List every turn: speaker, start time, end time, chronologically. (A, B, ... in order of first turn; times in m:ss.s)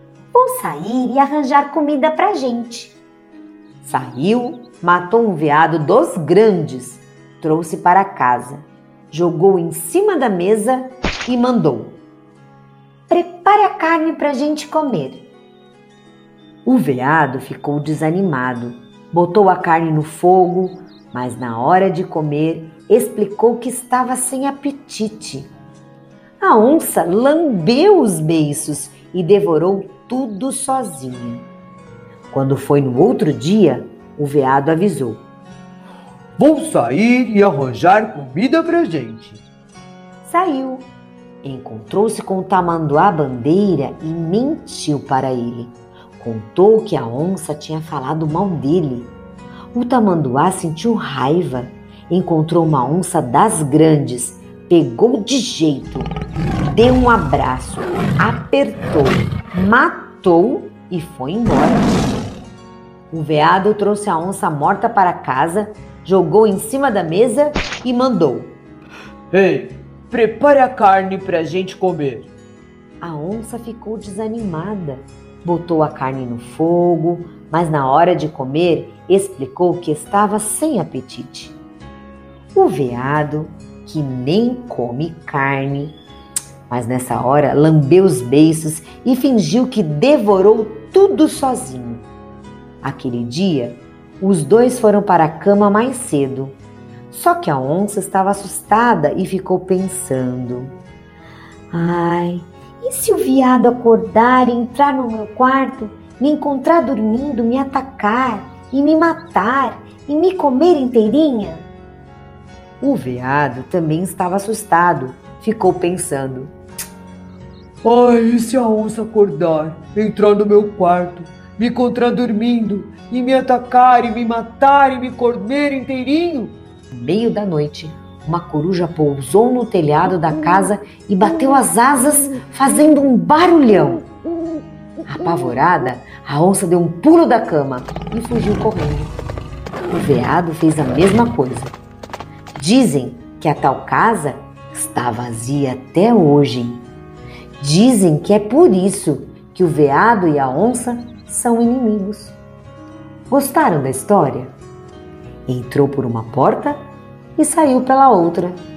0:00.3-0:03.0 A
0:03.8-0:12.0 A
0:13.1-0:15.3 A
0:16.6-0:25.5 A
0:26.4-0:31.5 A
0:32.3-0:35.2 A
0:36.4-0:39.4 B
0:40.2-0:40.9 A
0:41.4-0:49.1 A
0:49.7-0:56.1 A
0:56.6-1:02.1 A
1:03.1-1:08.6 A
1:09.3-1:12.3 B
1:13.0-1:21.6 A
1:22.5-1:26.0 A
1:26.7-1:32.0 A
1:32.8-1:36.6 A
1:37.1-1:40.7 A
1:41.7-1:51.7 A
1:52.8-1:56.5 A
1:57.8-2:06.6 B
2:06.9-2:14.0 A
2:15.1-2:19.1 A
2:19.9-2:21.8 A
2:22.5-2:26.8 A
2:27.6-2:32.4 A
2:33.3-2:34.5 A
2:35.5-2:36.8 A
2:37.4-2:38.6 A